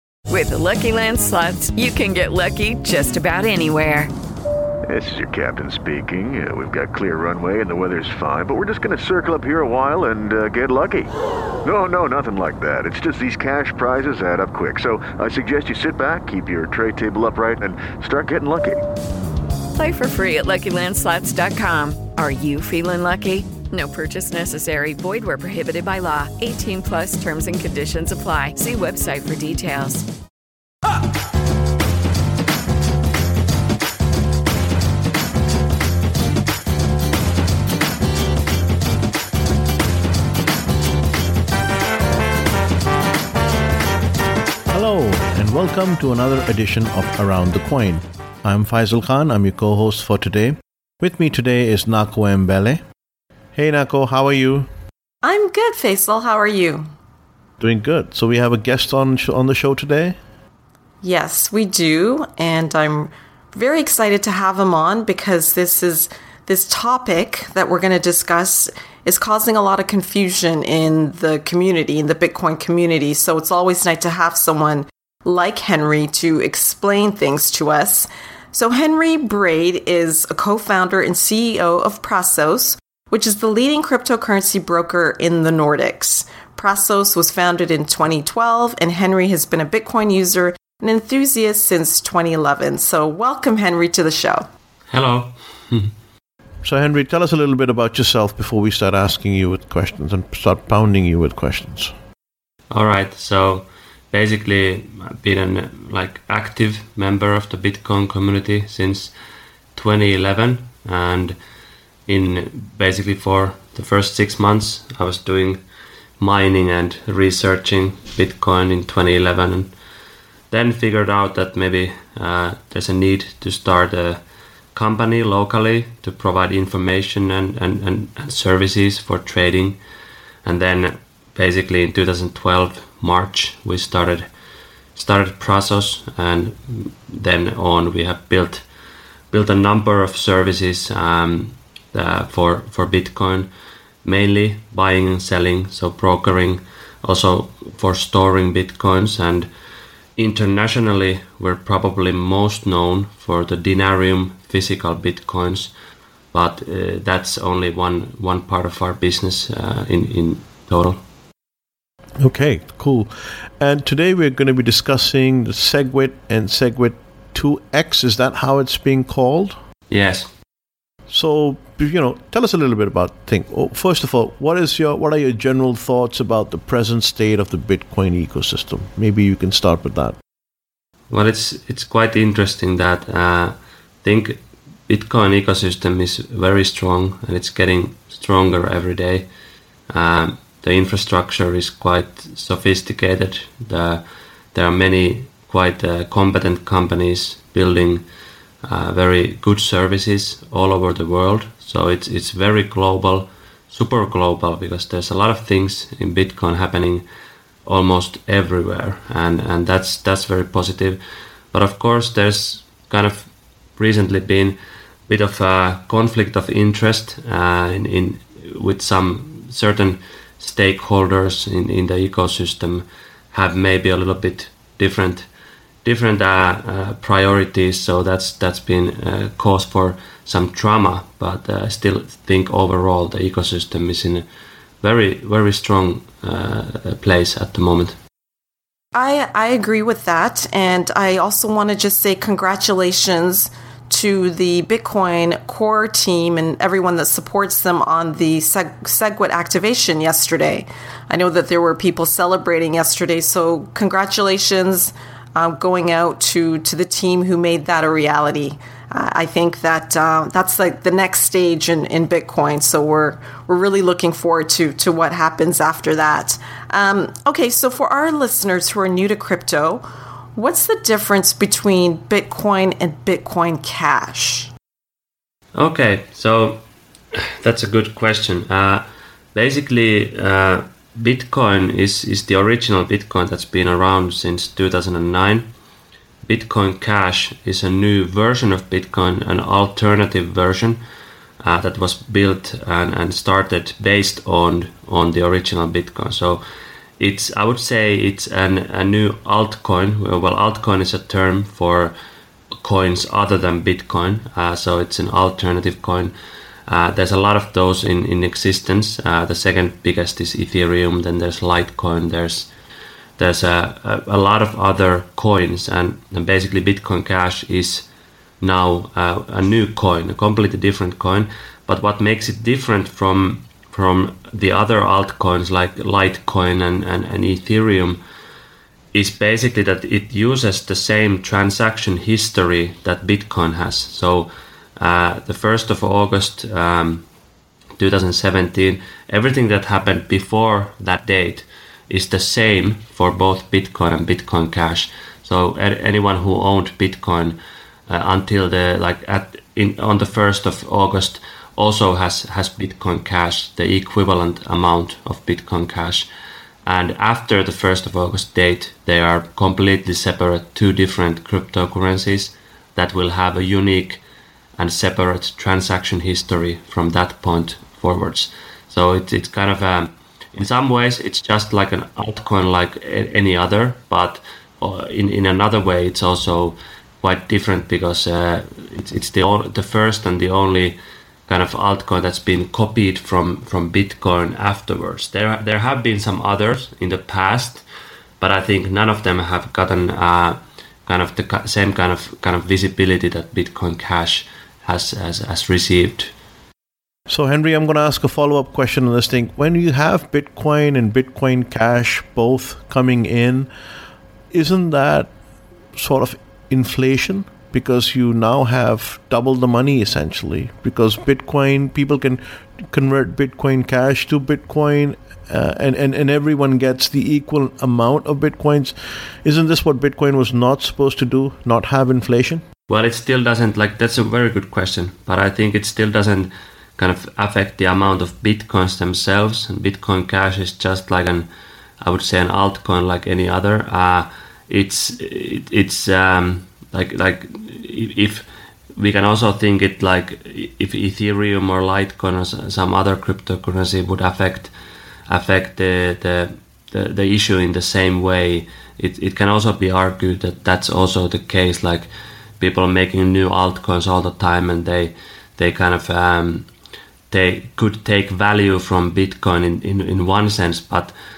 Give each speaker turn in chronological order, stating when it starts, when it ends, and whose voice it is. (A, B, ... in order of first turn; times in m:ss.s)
0:00.3-0:04.1 A
0:04.9-0:11.1 B
0:11.6-0:18.8 B
0:19.7-0:30.1 A
0:44.7-0:52.8 C
0:53.6-0:54.7 C
0:55.2-0:56.9 D
0:57.6-1:00.2 C
1:01.0-1:34.5 D
1:34.9-1:35.9 E
1:36.6-1:41.9 C
1:42.7-1:49.1 E
1:49.8-1:51.4 E
1:52.1-1:55.6 E
1:56.2-1:59.7 E
2:00.5-2:04.2 E
2:04.7-2:09.8 E
2:10.4-2:14.3 E
2:15.0-2:18.6 E
2:19.3-2:23.5 E
2:24.0-2:29.5 E
2:30.2-2:35.7 E
2:36.3-2:41.0 E
2:42.2-2:49.6 C
2:49.9-2:50.3 E
2:51.1-3:00.2 C
3:01.1-3:09.3 E
3:09.9-3:14.0 E
3:14.5-3:18.0 E
3:18.6-3:27.0 E
3:27.7-3:31.0 E
3:31.5-3:34.6 E
3:35.1-3:45.3 E
3:45.8-3:54.2 E
3:54.8-3:58.0 E
3:58.9-4:29.8 D
4:30.4-4:34.5 D
4:35.6-4:36.6 E
4:37.1-4:45.5 E
4:46.2-4:50.8 E
4:51.4-4:56.4 E
4:57.0-5:02.0 E
5:02.6-5:06.1 E
5:06.7-5:12.5 E
5:13.2-5:17.9 E
5:18.4-5:28.0 E
5:28.9-5:37.0 E
5:37.8-5:56.1 E
5:56.7-6:04.0 E
6:04.6-6:27.6 E
6:28.2-6:36.1 E
6:37.1-6:43.5 C
6:44.3-6:45.1 C
6:45.7-7:02.4 C
7:02.7-7:11.3 E
7:11.8-7:18.2 E
7:18.8-7:24.5 E
7:25.1-7:31.9 E
7:32.4-7:36.5 E
7:37.1-7:40.9 E